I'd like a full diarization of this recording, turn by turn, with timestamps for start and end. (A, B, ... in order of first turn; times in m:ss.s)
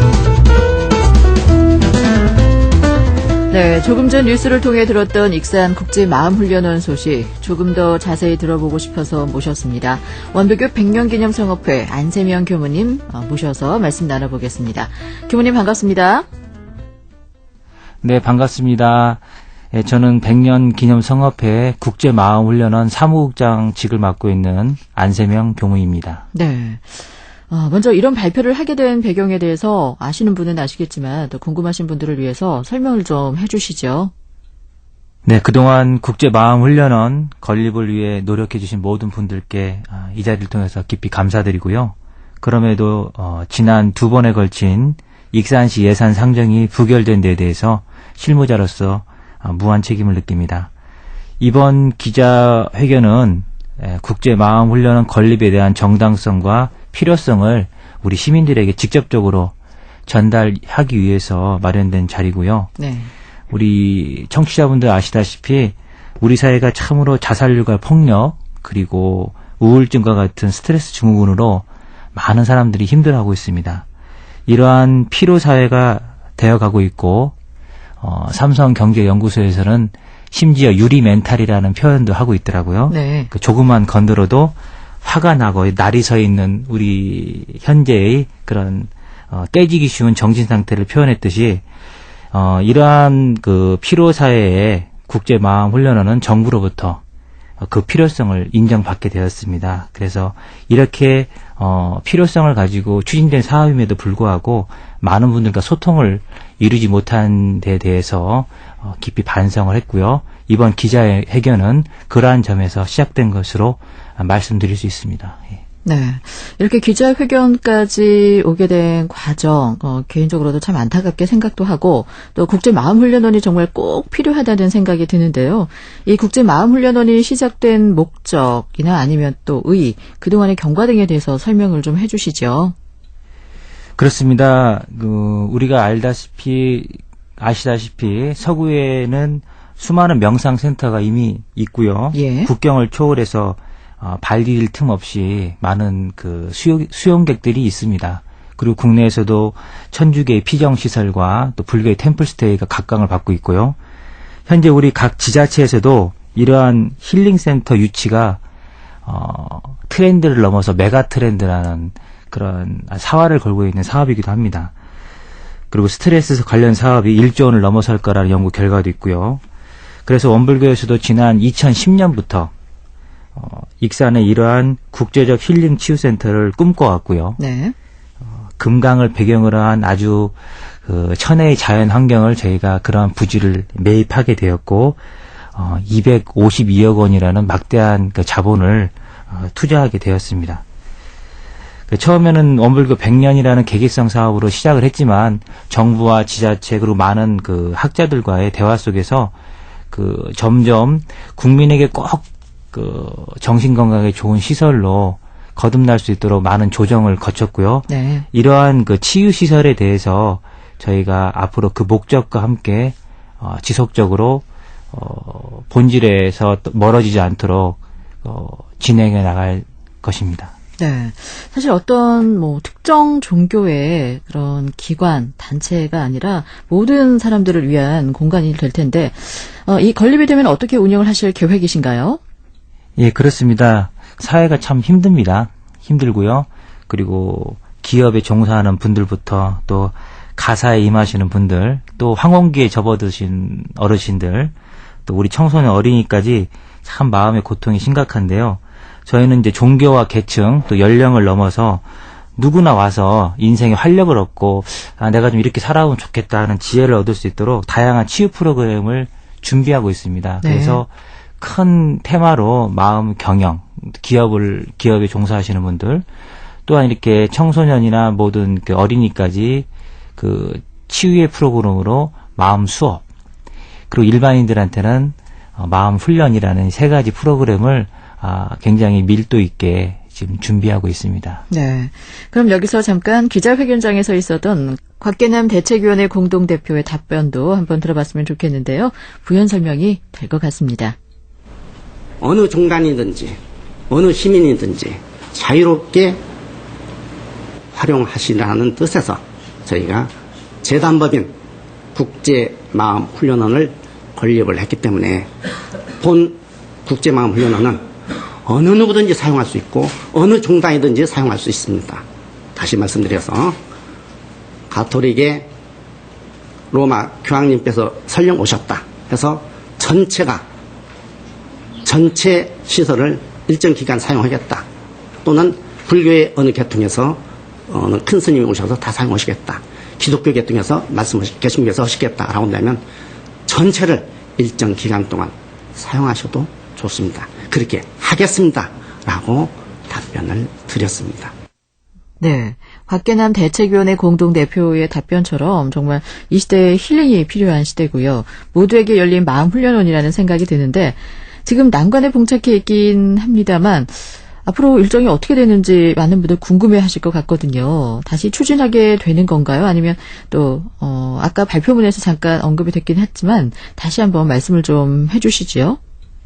0:03.5-0:16.2 A
0:18.0-0:19.2 B
0:19.7-0:26.2 B
0:26.3-0:34.1 A
0:35.2-0:50.7 B
0:51.4-0:59.5 B
1:00.1-1:02.7 B
1:02.8-1:03.1 A
1:03.5-1:13.8 B
1:14.5-1:17.3 B
1:18.0-1:31.6 B
1:22.9-1:23.3 A
1:32.3-1:37.0 B
1:37.6-1:55.6 B
1:55.8-2:12.7 A
2:14.0-2:33.8 B
2:22.1-2:22.5 A
2:34.5-2:38.4 B
2:39.0-2:44.7 B
2:45.7-2:49.4 B
2:50.0-2:52.5 B
2:53.3-2:57.4 B
2:57.4-2:57.7 A
2:58.2-3:05.0 B
3:05.6-3:10.6 B
3:11.9-3:19.3 B
3:19.9-3:40.5 B
3:27.9-3:28.2 A
3:40.8-3:52.2 A
3:53.0-4:04.5 B
4:05.0-4:11.8 B
4:12.4-4:26.0 B
4:20.4-4:20.8 A
4:26.7-4:33.0 B
4:33.9-4:41.4 B
4:41.5-4:51.0 A
4:52.2-4:53.4 C
4:53.9-4:56.2 C
4:57.7-5:00.1 C
5:00.6-5:01.3 C
5:01.9-5:05.3 C
5:06.0-5:07.8 C
5:08.4-5:12.0 C
5:12.6-5:13.6 C
5:14.7-5:15.5 C
5:16.7-5:20.4 C
5:21.8-5:24.6 C
5:25.2-5:32.8 C
5:33.5-5:41.3 C
5:42.2-6:05.8 A